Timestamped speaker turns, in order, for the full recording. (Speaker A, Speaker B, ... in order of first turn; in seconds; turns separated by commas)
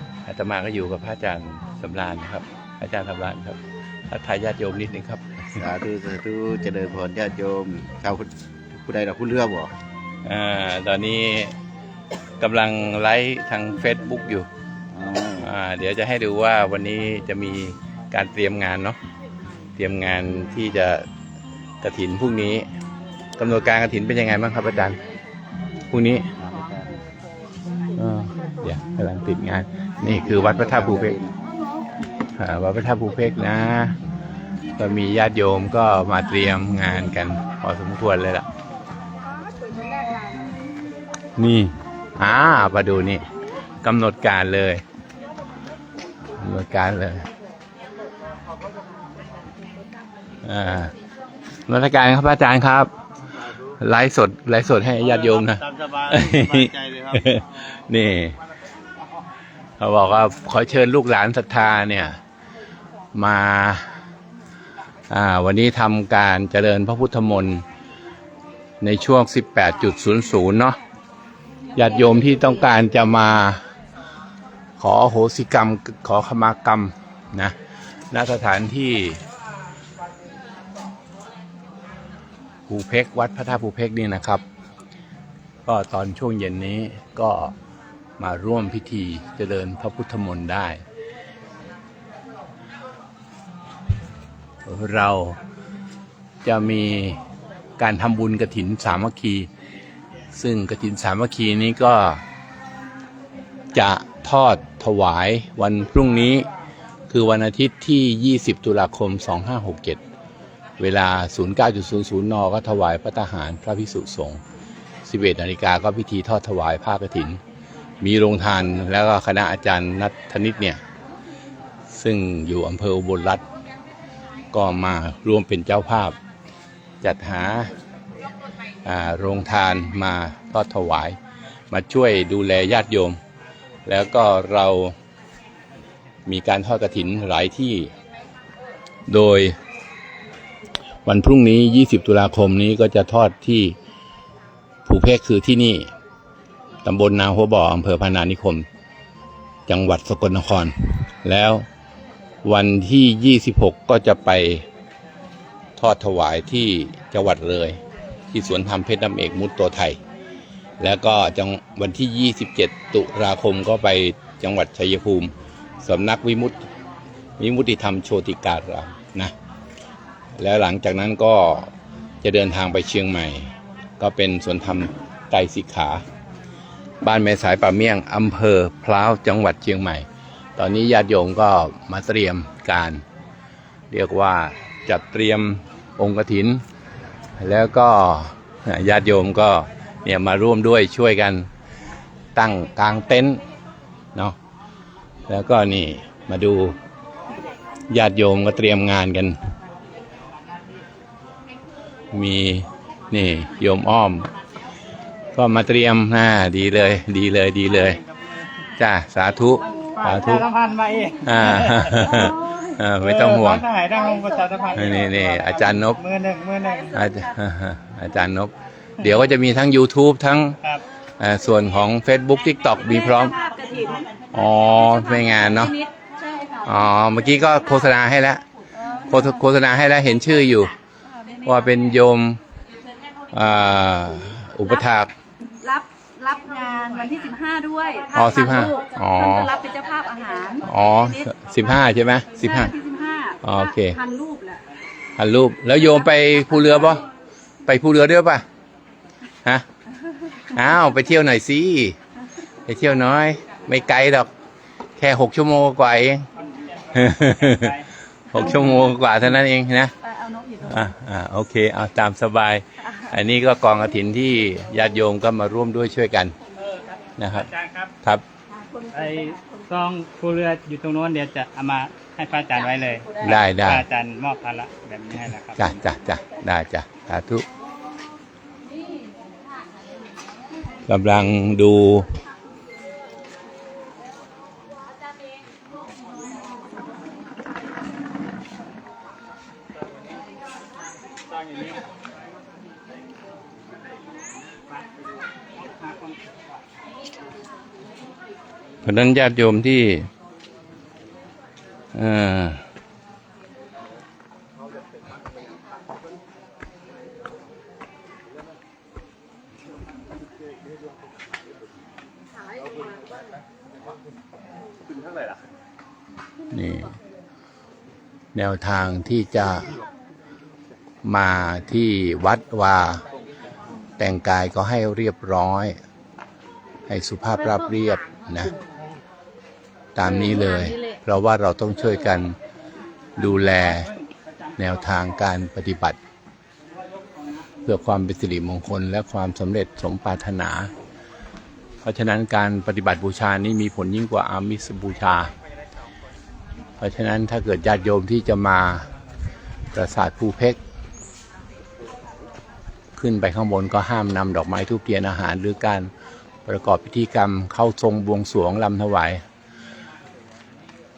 Speaker A: 0.2-5.7, Speaker B: 5.6-9.7, Speaker A: 10.2-11.6, Speaker A: 12.4-14.5, Speaker B: 14.9-15.5, Speaker A: 15.4-19.0, Speaker A: 19.8-21.1, Speaker A: 21.8-22.6, Speaker A: 23.4-25.0, Speaker A: 25.9-26.3, Speaker B: 26.4-27.0, Speaker A: 27.9-31.1, Speaker B: 30.2-31.4, Speaker A: 32.3-34.0, Speaker A: 34.8-38.5, Speaker A: 41.4-43.2, Speaker A: 43.8-44.8, Speaker A: 46.3-47.3, Speaker A: 50.4-50.9, Speaker A: 51.7-52.9, Speaker A: 53.6-58.4, Speaker A: 59.8-62.2, Speaker A: 63.1-63.9, Speaker A: 65.1-67.6, Speaker A: 68.8-70.8, Speaker A: 71.7-73.7, Speaker A: 74.8-77.5, Speaker A: 78.1-79.2, Speaker A: 82.7-84.4, Speaker A: 85.6-87.5, Speaker A: 88.2-90.8, Speaker A: 94.6-95.4, Speaker A: 96.4-97.2, Speaker A: 97.8-99.5, Speaker A: 100.3-102.2, Speaker A: 103.7-106.5, Speaker A: 107.1-110.0, Speaker A: 110.8-114.4, Speaker A: 115.0-117.4, Speaker A: 118.0-120.8, Speaker A: 121.9-123.4, Speaker A: 124.5-126.2, Speaker A: 127.0-127.7, Speaker A: 128.8-131.2, Speaker A: 131.7-133.2, Speaker A: 133.8-134.9, Speaker A: 136.2-137.9, Speaker A: 139.1-139.6, Speaker A: 141.0-143.8, Speaker A: 144.8-145.9, Speaker A: 146.8-148.7, Speaker A: 149.7-151.7, Speaker A: 152.4-154.7, Speaker A: 155.8-160.0, Speaker A: 160.8-166.6, Speaker A: 167.4-169.3, Speaker A: 170.4-176.0, Speaker A: 177.0-183.0, Speaker A: 183.9-186.6, Speaker A: 187.4-191.5, Speaker A: 192.3-193.4, Speaker A: 195.3-196.8, Speaker A: 197.9-199.4, Speaker A: 202.1-204.3, Speaker A: 205.3-208.0, Speaker A: 208.8-210.4, Speaker C: 209.8-212.3, Speaker A: 211.2-213.7, Speaker C: 213.0-216.9, Speaker A: 214.7-216.0, Speaker A: 216.9-220.6, Speaker A: 221.2-223.4, Speaker D: 223.3-224.1, Speaker A: 224.3-225.8, Speaker D: 225.5-226.6, Speaker A: 226.6-228.4, Speaker A: 229.0-230.7, Speaker A: 231.4-232.4, Speaker A: 233.3-235.1, Speaker D: 235.6-240.7, Speaker A: 238.1-239.6, Speaker A: 240.6-242.7, Speaker D: 242.5-244.6, Speaker A: 243.4-244.0, Speaker A: 245.2-247.1, Speaker A: 247.6-248.4, Speaker A: 250.5-252.0, Speaker A: 252.7-254.3, Speaker A: 255.0-256.3, Speaker C: 256.4-257.9, Speaker A: 256.9-257.8, Speaker A: 258.3-259.9, Speaker D: 260.2-260.6, Speaker A: 260.6-266.4, Speaker A: 267.2-267.5, Speaker C: 267.4-267.9, Speaker C: 268.9-275.7, Speaker A: 273.2-273.9, Speaker A: 275.6-277.4, Speaker A: 280.9-282.1, Speaker C: 291.3-291.8, Speaker C: 295.6-296.4, Speaker A: 298.8-300.1, Speaker A: 301.9-302.6, Speaker A: 316.5-317.0, Speaker A: 318.3-319.7, Speaker A: 321.0-323.1, Speaker A: 324.0-325.8, Speaker A: 326.9-328.5, Speaker A: 329.9-332.4, Speaker A: 333.1-333.9, Speaker A: 334.6-336.0, Speaker C: 337.1-337.4, Speaker A: 337.6-340.7, Speaker A: 341.8-345.3, Speaker A: 346.8-348.9, Speaker A: 349.7-350.6, Speaker A: 352.9-355.9, Speaker A: 356.4-359.2